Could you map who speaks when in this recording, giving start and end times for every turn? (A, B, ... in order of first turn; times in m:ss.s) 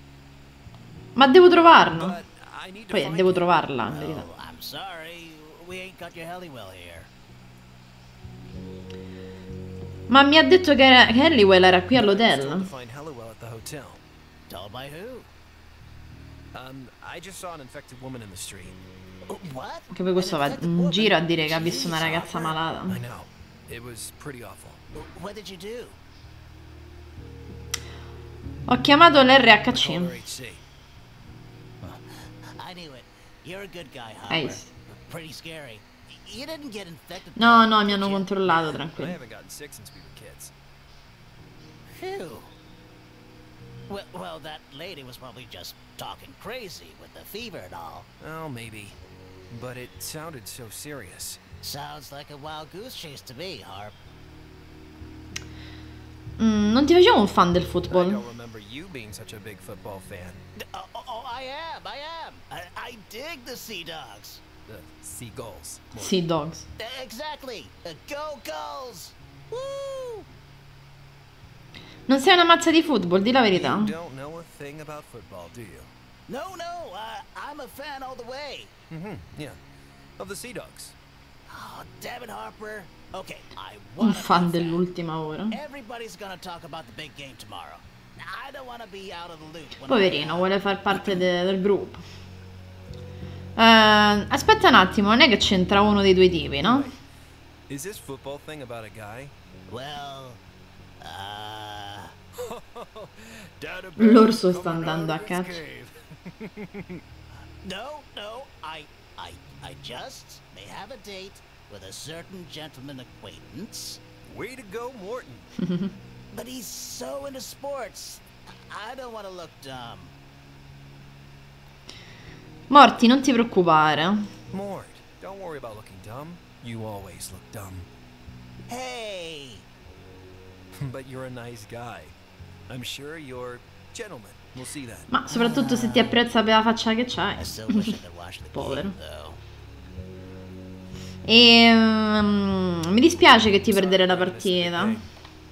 0:01.2-0:02.2 A
0:01.9-0:03.6 B
0:02.9-0:04.3 A
0:03.9-0:07.1 C
0:10.1-0:12.7 A
0:11.9-0:14.0 B
0:14.5-0:15.3 C
0:16.5-0:18.8 B
0:19.3-0:22.6 C
0:19.9-0:23.0 A
0:22.9-0:24.8 B
0:25.0-0:26.0 C
0:28.7-0:30.1 A
0:29.7-0:30.6 B
0:31.8-0:38.8 C
0:34.3-0:34.7 A
0:37.4-0:39.2 A
0:39.0-0:40.5 B
0:41.9-0:42.5 C
0:43.9-0:48.1 C
0:48.2-0:49.0 B
0:49.5-0:51.4 B
0:51.6-0:54.0 C
0:56.4-0:58.2 A
0:57.9-1:00.4 B
1:00.6-1:04.4 C
1:04.7-1:06.2 B
1:06.0-1:06.6 A
1:06.8-1:10.2 C
1:12.1-1:13.9 A
1:13.5-1:15.9 B
1:16.3-1:18.7 C
1:18.9-1:19.6 B
1:20.2-1:21.0 B
1:21.5-1:24.9 C
1:24.0-1:25.6 A
1:25.5-1:30.8 C
1:29.9-1:32.0 A
1:30.9-1:31.2 B
1:33.6-1:36.9 A
1:36.6-1:37.0 B
1:37.7-1:39.3 B
1:39.7-1:40.4 C
1:41.0-1:42.1 C
1:42.4-1:47.0 B
1:44.0-1:45.6 A
1:47.3-1:54.0 C
1:54.3-1:55.5 B
1:56.3-2:00.1 C
2:02.7-2:04.3 A
2:04.5-2:07.9 B
2:08.7-2:09.6 C
2:10.8-2:12.1 B
2:12.7-2:15.2 B
2:15.1-2:18.0 A
2:15.3-2:16.2 C
2:17.4-2:19.4 C
2:18.5-2:19.0 A
2:21.3-2:25.0 A
2:23.3-2:25.1 B